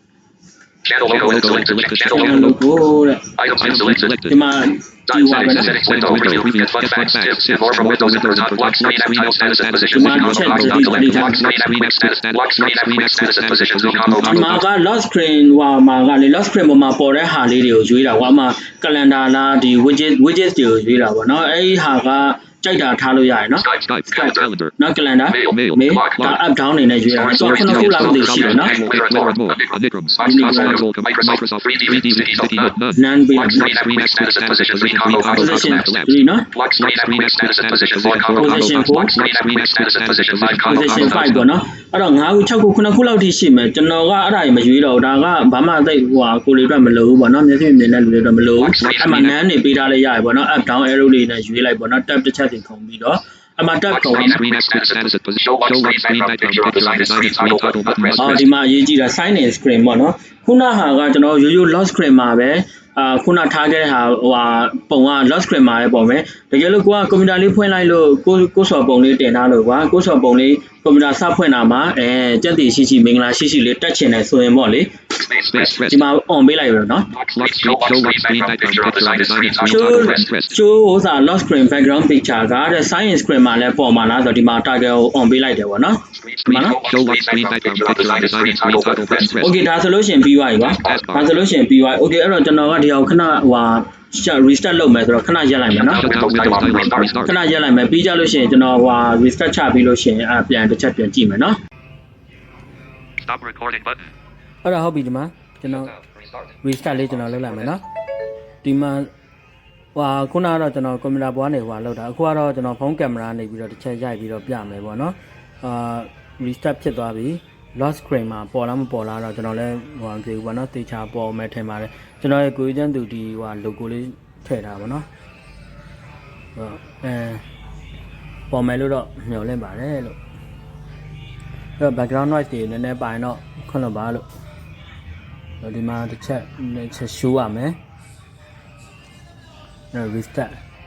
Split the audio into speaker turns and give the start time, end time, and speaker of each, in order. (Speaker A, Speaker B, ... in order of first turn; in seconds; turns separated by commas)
Speaker A: 0.8-2.5, Speaker B: 1.0-2.6, Speaker C: 2.1-3.2, Speaker A: 3.4-4.2, Speaker B: 3.6-4.4, Speaker C: 4.3-6.3, Speaker A: 5.1-14.5, Speaker B: 5.5-14.6, Speaker C: 9.9-11.4, Speaker C: 14.2-23.6, Speaker A: 23.6-24.5, Speaker B: 23.8-24.7, Speaker C: 24.8-28.7, Speaker A: 25.3-26.3, Speaker B: 25.4-26.4, Speaker A: 27.1-32.7, Speaker B: 27.3-33.0, Speaker C: 30.2-30.8, Speaker C: 32.9-33.7, Speaker A: 33.3-35.9, Speaker B: 33.5-36.2, Speaker C: 35.3-36.5, Speaker A: 36.5-41.2, Speaker B: 36.8-41.5, Speaker C: 38.4-39.1, Speaker C: 40.6-54.4, Speaker A: 48.6-49.2, Speaker B: 48.6-49.3, Speaker A: 53.9-58.5, Speaker B: 54.1-58.5, Speaker C: 58.2-74.9, Speaker A: 75.2-75.8, Speaker B: 75.5-76.0, Speaker C: 75.9-77.1, Speaker A: 77.1-80.3, Speaker B: 77.3-80.5, Speaker C: 79.7-86.8, Speaker A: 86.2-89.4, Speaker B: 86.5-89.5, Speaker C: 89.4-96.0, Speaker A: 90.7-91.1, Speaker B: 90.8-91.3, Speaker B: 95.8-97.3, Speaker A: 95.8-97.2, Speaker C: 97.2-101.6, Speaker B: 103.2-104.1, Speaker C: 104.6-105.9, Speaker C: 106.6-107.8, Speaker B: 106.9-107.8, Speaker C: 108.6-109.1, Speaker C: 109.9-125.0, Speaker C: 126.5-127.4, Speaker C: 128.5-130.2, Speaker C: 131.8-134.2, Speaker C: 135.6-137.8, Speaker C: 139.9-140.6